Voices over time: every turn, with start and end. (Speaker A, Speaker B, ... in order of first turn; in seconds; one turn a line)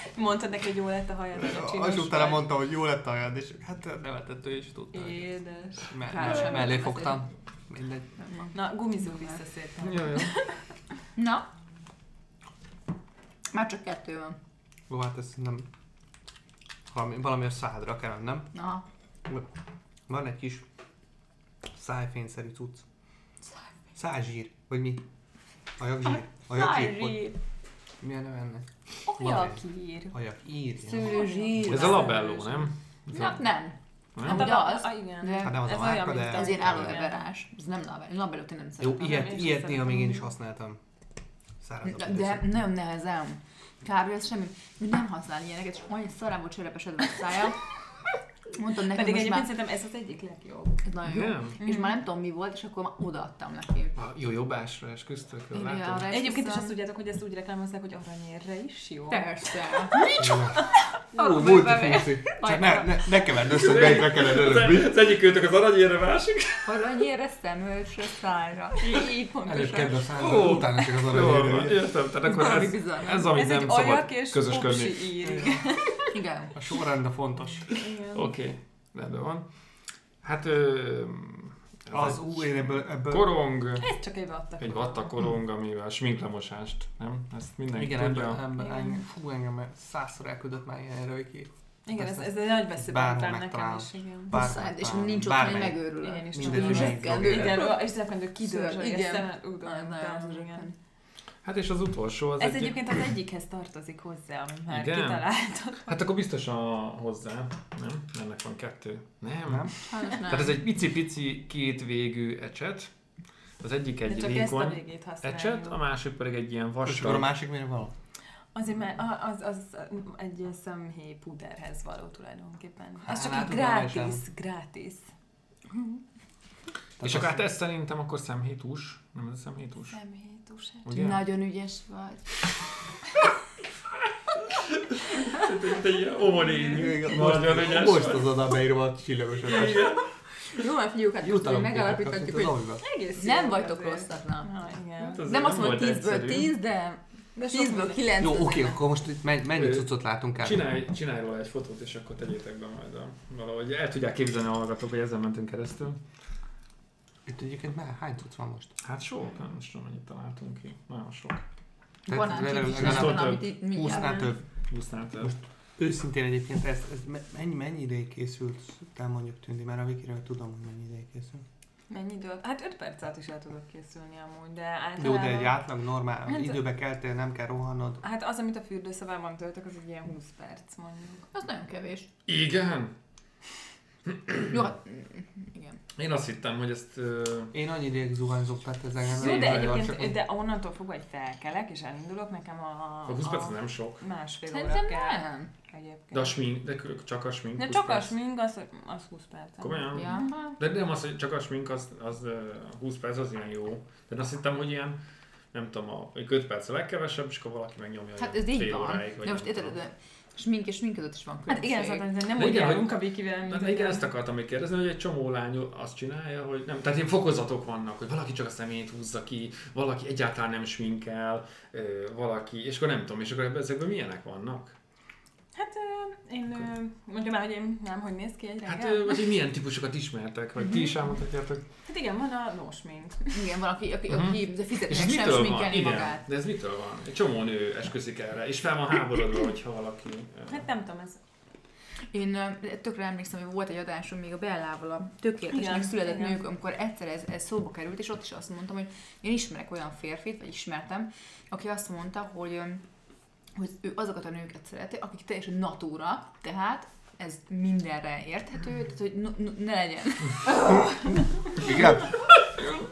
Speaker A: 0.1-2.5
Speaker B: 1.4-5.3
Speaker A: 4.9-6.7
Speaker B: 5.9-8.1
Speaker C: 6.1-7.2
Speaker C: 8.2-8.5
Speaker A: 8.5-10.5
Speaker D: 9.8-10.3
Speaker C: 11.2-11.4
Speaker C: 13.5-14.3
Speaker B: 14.9-15.7
Speaker B: 16.9-18.5
Speaker C: 18.5-18.8
Speaker B: 20.1-20.6
Speaker B: 21.7-22.8
Speaker B: 23.9-25.0
Speaker B: 25.8-27.3
Speaker C: 26.5-27.3
Speaker B: 28.0-31.3
Speaker A: 29.1-30.1
Speaker C: 30.8-32.5
Speaker A: 31.0-32.3
Speaker D: 31.6-33.4
Speaker C: 33.1-39.3
Speaker D: 34.1-34.5
Speaker A: 34.2-37.1
Speaker B: 35.4-37.0
Speaker B: 38.8-40.8
Speaker A: 39.0-40.3
Speaker B: 41.6-42.5
Speaker C: 41.8-47.6
Speaker C: 48.5-49.5
Speaker A: 48.8-50.8
Speaker C: 50.8-54.0
Speaker D: 51.0-51.6
Speaker A: 51.6-51.9
Speaker D: 54.0-56.1
Speaker C: 55.5-56.7
Speaker A: 56.1-61.6
Speaker C: 59.1-60.2
Speaker B: 60.1-64.9
Speaker C: 61.1-63.2
Speaker D: 63.5-66.7
Speaker C: 66.6-69.4
Speaker A: 68.8-69.9
Speaker B: 69.4-71.9
Speaker D: 70.1-75.2
Speaker C: 72.2-73.4
Speaker A: 73.3-76.1
Speaker B: 75.2-75.6
Speaker C: 76.1-76.5
Speaker B: 76.5-77.7
Speaker A: 77.7-78.3
Speaker D: 78.1-79.5
Speaker D: 80.2-83.9
Speaker B: 81.9-83.4
Speaker A: 83.8-85.1
Speaker D: 84.6-88.4
Speaker B: 87.7-97.7
Speaker A: 88.6-89.0
Speaker A: 91.8-94.3
Speaker C: 94.3-97.9
Speaker A: 96.0-100.7
Speaker C: 98.4-100.7
Speaker D: 101.4-103.0
Speaker A: 102.4-105.9
Speaker D: 104.7-105.2
Speaker D: 105.8-112.9
Speaker B: 109.5-109.7
Speaker C: 109.8-110.6
Speaker D: 113.6-117.3
Speaker A: 114.0-115.8
Speaker B: 116.8-117.9
Speaker A: 118.5-125.0
Speaker B: 123.0-124.2
Speaker B: 127.0-127.4
Speaker D: 127.0-130.0
Speaker A: 129.9-130.9
Speaker D: 130.8-131.2
Speaker C: 130.9-132.4
Speaker D: 134.6-138.5
Speaker A: 136.5-136.9
Speaker B: 136.7-140.0
Speaker D: 139.4-140.1
Speaker C: 140.5-148.8
Speaker B: 141.2-142.8
Speaker A: 142.8-145.2
Speaker D: 145.1-146.5
Speaker A: 147.3-148.1
Speaker B: 148.2-150.6
Speaker D: 149.6-149.9
Speaker D: 150.4-156.0
Speaker B: 157.2-158.7
Speaker D: 158.8-161.4
Speaker C: 162.1-164.3
Speaker B: 162.1-164.4
Speaker D: 162.6-163.5
Speaker A: 163.8-164.3
Speaker D: 164.7-165.3
Speaker B: 165.2-171.4
Speaker A: 171.9-175.6
Speaker B: 175.0-178.0
Speaker A: 176.3-176.6
Speaker A: 178.0-181.3
Speaker C: 181.3-182.1
Speaker D: 182.3-182.9
Speaker D: 184.1-184.5
Speaker C: 184.5-185.8
Speaker D: 185.9-187.5
Speaker B: 187.5-190.2
Speaker A: 189.1-196.4
Speaker D: 189.2-189.8
Speaker D: 193.1-194.0
Speaker C: 194.5-195.5
Speaker D: 196.1-198.1
Speaker A: 197.6-200.3
Speaker D: 199.6-205.0
Speaker C: 199.9-200.6
Speaker D: 205.5-209.7
Speaker C: 208.2-212.1
Speaker A: 211.5-214.1
Speaker D: 212.3-224.8
Speaker A: 225.5-229.3
Speaker D: 228.6-231.6
Speaker A: 231.8-233.4
Speaker C: 233.3-236.2
Speaker D: 234.1-240.6
Speaker A: 240.5-241.2
Speaker C: 242.1-252.8
Speaker A: 245.5-246.4
Speaker C: 253.5-261.1
Speaker B: 261.5-262.1